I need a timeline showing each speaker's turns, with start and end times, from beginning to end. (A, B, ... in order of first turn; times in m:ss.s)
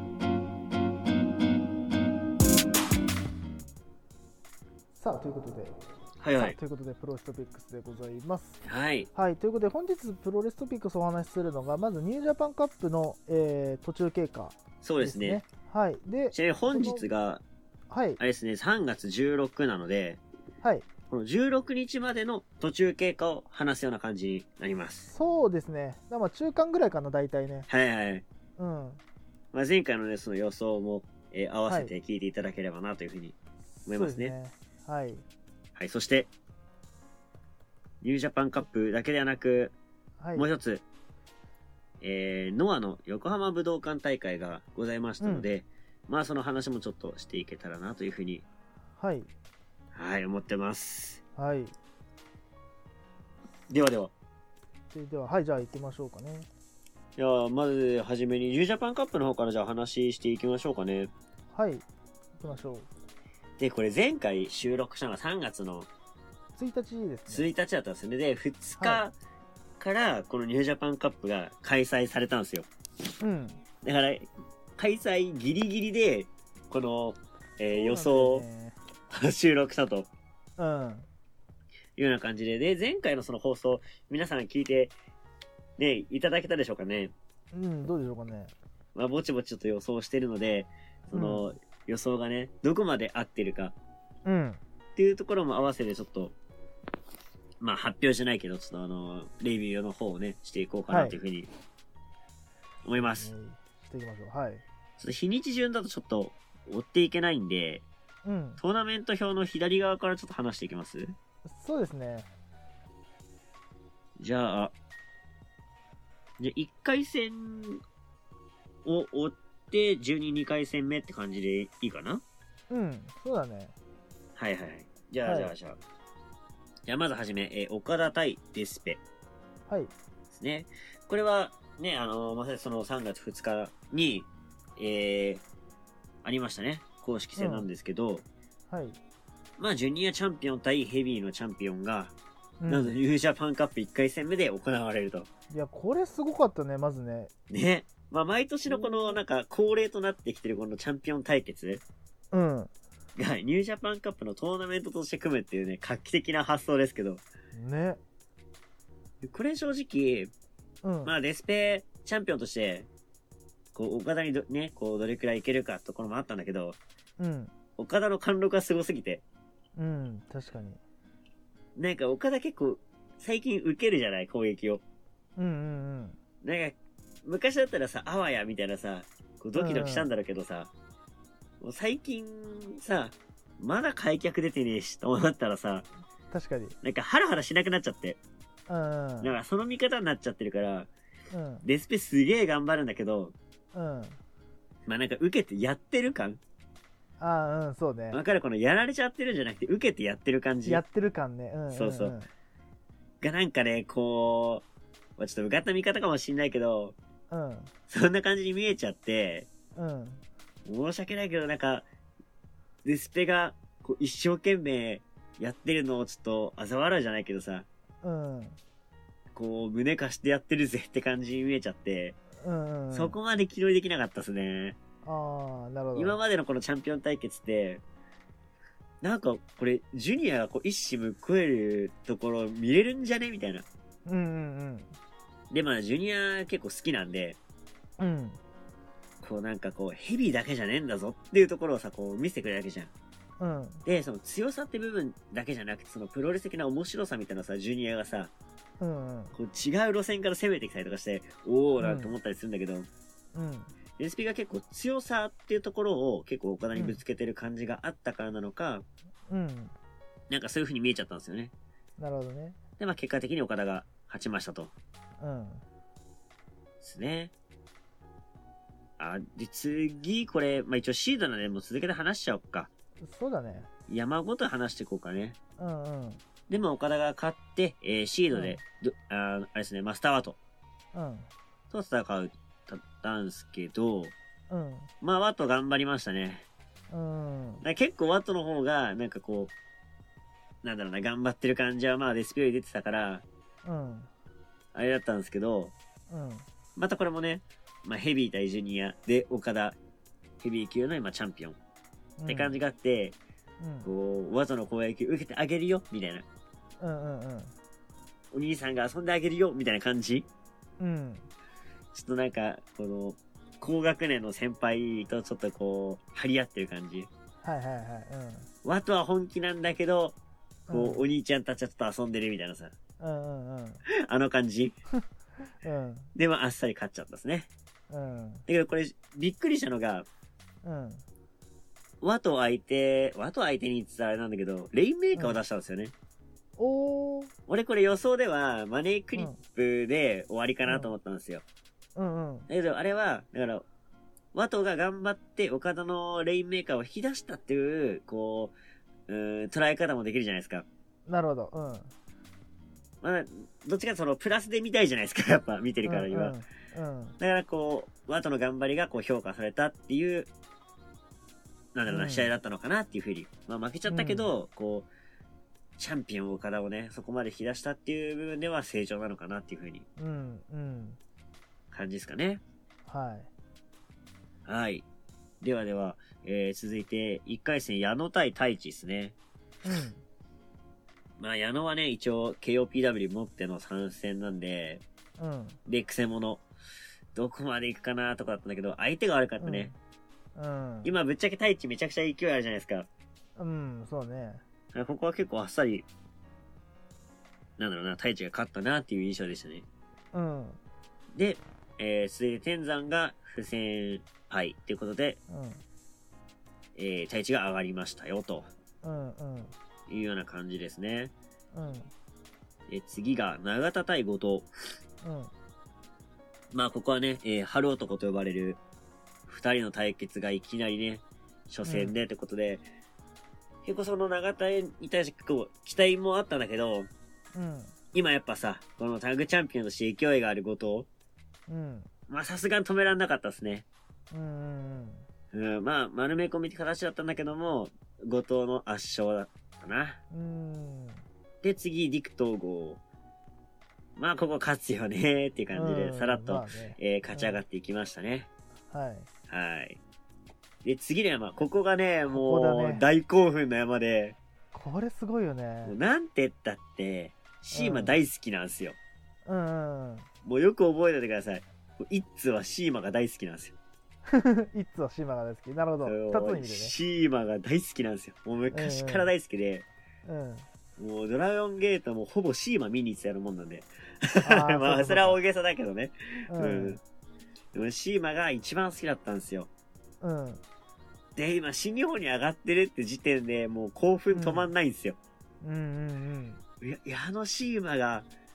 0:05.0-0:05.8 A
0:06.2-0:06.6 B
0:06.4-0:08.6 A
0:08.6-0:09.1 B
0:09.2-0:17.1 A
0:14.8-0:15.4 B
0:16.3-0:17.4 B
0:17.9-0:18.2 A
0:18.2-0:20.2 B
0:21.1-0:25.1 B
0:25.1-0:27.7 A
0:27.7-0:28.2 B
0:28.6-0:29.0 A
0:29.5-0:34.3 B
0:33.8-0:35.2 A
0:35.8-0:36.3 B
0:38.0-0:39.7 B
0:40.2-0:40.5 A
0:40.4-0:40.8 B
0:42.0-0:48.4 B
0:45.2-0:45.5 A
0:49.0-0:49.3 A
0:49.9-0:51.2 B
0:51.4-0:51.7 A
0:53.7-0:54.1 B
0:54.9-0:56.5 A
0:57.2-1:01.1 B
1:01.5-1:01.8 A
1:02.4-1:02.9 A
1:03.6-1:05.9 B
1:06.6-1:07.5 A
1:07.3-1:09.2 B
1:09.8-1:12.7 B
1:13.2-1:13.6 A
1:13.8-1:18.4 B
1:17.7-1:18.8 A
1:19.1-1:20.1 B
1:20.6-1:21.1 A
1:22.0-1:25.0 B
1:25.8-1:27.1 B
1:27.5-1:28.5 A
1:29.0-1:33.7 B
1:31.1-1:31.5 A
1:34.2-1:34.6 A
1:35.0-1:36.4 B
1:37.6-1:41.5 B
1:40.9-1:41.2 A
1:42.8-1:43.3 B
1:42.9-1:44.6 A
1:45.0-1:47.9 B
1:48.2-1:48.6 A
1:48.6-1:51.2 B
1:51.4-1:52.3 A
1:54.2-1:54.7 B
1:56.4-1:57.8 B
1:58.8-2:02.2 B
2:02.7-2:03.8 A
2:04.4-2:05.8 B
2:05.2-2:05.5 A
2:06.9-2:09.0 B
2:10.3-2:15.4 B
2:16.2-2:18.2 B
2:17.4-2:17.7 A
2:18.7-2:19.0 A
2:19.6-2:22.1 B
2:22.6-2:23.0 A
2:22.7-2:25.3 B
2:25.5-2:27.3 A
2:27.5-2:31.8 B
2:28.7-2:29.2 A
2:32.3-2:32.7 A
2:33.2-2:37.2 B
2:37.6-2:38.0 A
2:39.2-2:40.3 B
2:40.8-2:41.1 A
2:41.0-2:42.9 B
2:43.8-2:46.8 B
2:47.2-2:47.5 A
2:47.8-2:49.2 B
2:49.8-2:50.8 A
2:51.8-2:54.8 B
2:55.4-2:56.2 A
2:56.4-3:00.7 B
2:59.6-3:00.1 A
3:01.6-3:05.9 B
3:06.3-3:06.8 A
3:06.8-3:08.2 B
3:08.7-3:09.4 A
3:09.2-3:10.9 B
3:11.3-3:11.7 A
3:11.6-3:13.3 B
3:13.7-3:14.2 A
3:14.9-3:16.4 B
3:17.2-3:18.2 A
3:18.1-3:20.8 B
3:20.6-3:22.3 A
3:21.7-3:22.2 B
3:23.2-3:24.6 B
3:25.2-3:27.0 B
3:27.3-3:27.7 A
3:27.9-3:29.5 B
3:29.8-3:30.2 A
3:30.7-3:31.9 B
3:32.8-3:37.7 B
3:38.0-3:38.6 A
3:39.4-3:42.2 B
3:42.4-3:43.2 A
3:42.9-3:44.8 B
3:45.0-3:46.2 A
3:46.0-3:47.8 B
3:49.0-3:53.7 B
3:54.1-3:54.9 A
3:55.5-3:57.4 B
3:58.0-3:58.4 A
3:59.2-4:02.9 B
4:03.4-4:03.9 A
4:03.9-4:08.3 B
4:08.8-4:09.4 A
4:09.4-4:12.9 B
4:11.8-4:12.1 A
4:13.4-4:13.7 A
4:14.0-4:18.8 B
4:19.3-4:19.7 A
4:20.3-4:21.5 B
4:22.0-4:22.6 A
4:22.8-4:24.7 B
4:25.2-4:25.6 A
4:26.8-4:27.3 B
4:29.0-4:32.7 B
4:33.0-4:33.7 A
4:33.9-4:35.4 B
4:35.6-4:36.2 A
4:36.5-4:40.4 B
4:38.3-4:38.6 A
4:40.9-4:41.3 A
4:41.7-4:44.1 B
4:44.5-4:44.9 A
4:45.0-4:46.5 B
4:46.9-4:47.6 A
4:47.6-4:49.5 B
4:50.6-4:53.2 B
4:53.6-4:54.1 A
4:54.7-4:55.7 B
4:56.1-4:56.4 A
4:56.8-4:59.8 B
5:00.4-5:01.6 B
5:02.2-5:02.6 A
5:02.3-5:03.2 B
5:03.6-5:03.9 A
5:03.8-5:06.3 B
5:06.8-5:07.5 A
5:08.3-5:10.3 B
5:10.8-5:11.3 A
5:11.9-5:17.1 B
5:17.4-5:18.5 A
5:18.6-5:20.2 B
5:20.7-5:21.0 A
5:20.7-5:22.8 B
5:23.0-5:23.8 A
5:23.9-5:24.8 B
5:25.6-5:26.1 A
5:26.2-5:27.5 B
5:27.9-5:28.4 A
5:28.5-5:30.1 B
5:30.6-5:31.0 A
5:32.0-5:35.9 B
5:36.6-5:37.3 A
5:37.5-5:41.4 B
5:40.7-5:41.0 A
5:42.0-5:42.5 A
5:42.5-5:43.6 B
5:44.3-5:48.6 B
5:49.1-5:50.7 B
5:51.1-5:51.9 A
5:53.0-5:56.4 B
5:55.9-5:57.2 A
5:57.2-6:00.3 B
6:01.8-6:04.9 B
6:01.9-6:02.3 A
6:03.9-6:04.3 A
6:05.8-6:09.9 B
6:10.0-6:11.0 A
6:11.7-6:12.4 B
6:12.9-6:13.3 A
6:14.5-6:14.8 B
6:15.4-6:19.2 B
6:19.6-6:20.0 A
6:21.2-6:24.8 B
6:25.2-6:25.6 A
6:25.7-6:26.4 B
6:27.2-6:29.7 B
6:29.4-6:29.8 A
6:30.4-6:30.9 A
6:30.8-6:32.9 B
6:33.4-6:34.4 A
6:34.7-6:35.9 B
6:37.6-6:39.7 B
6:40.1-6:40.6 A
6:41.1-6:45.2 B
6:45.3-6:45.6 A
6:46.8-6:48.5 B
6:48.8-6:49.5 A
6:49.9-6:51.1 B
6:51.5-6:51.9 A
6:52.7-6:54.5 B
6:55.0-6:55.3 A
6:56.5-6:58.6 B
6:59.3-7:02.6 B
7:01.6-7:02.0 A
7:03.6-7:06.9 B
7:07.4-7:07.7 A
7:07.9-7:10.9 B
7:11.5-7:11.9 A
7:12.1-7:13.6 B
7:14.1-7:15.1 A
7:15.3-7:20.0 B
7:20.1-7:21.0 A
7:21.4-7:22.8 B
7:24.0-7:28.3 B
7:25.5-7:27.4 A
7:28.7-7:29.1 A
7:29.3-7:29.8 B
7:30.6-7:34.2 B
7:32.1-7:32.9 A
7:34.5-7:35.8 A
7:35.6-7:38.8 B
7:37.5-7:38.0 A
7:39.3-7:40.1 A
7:40.2-7:43.6 B
7:44.1-7:46.8 A
7:45.8-7:49.7 B
7:48.5-7:49.1 A
7:50.0-7:50.5 A
7:50.8-7:56.8 B
7:54.2-7:55.2 A
7:56.3-7:56.8 A
7:57.5-7:59.5 B
8:00.0-8:00.4 A
8:01.2-8:05.0 B
8:04.1-8:04.5 A
8:05.4-8:06.4 A
8:06.6-8:08.1 B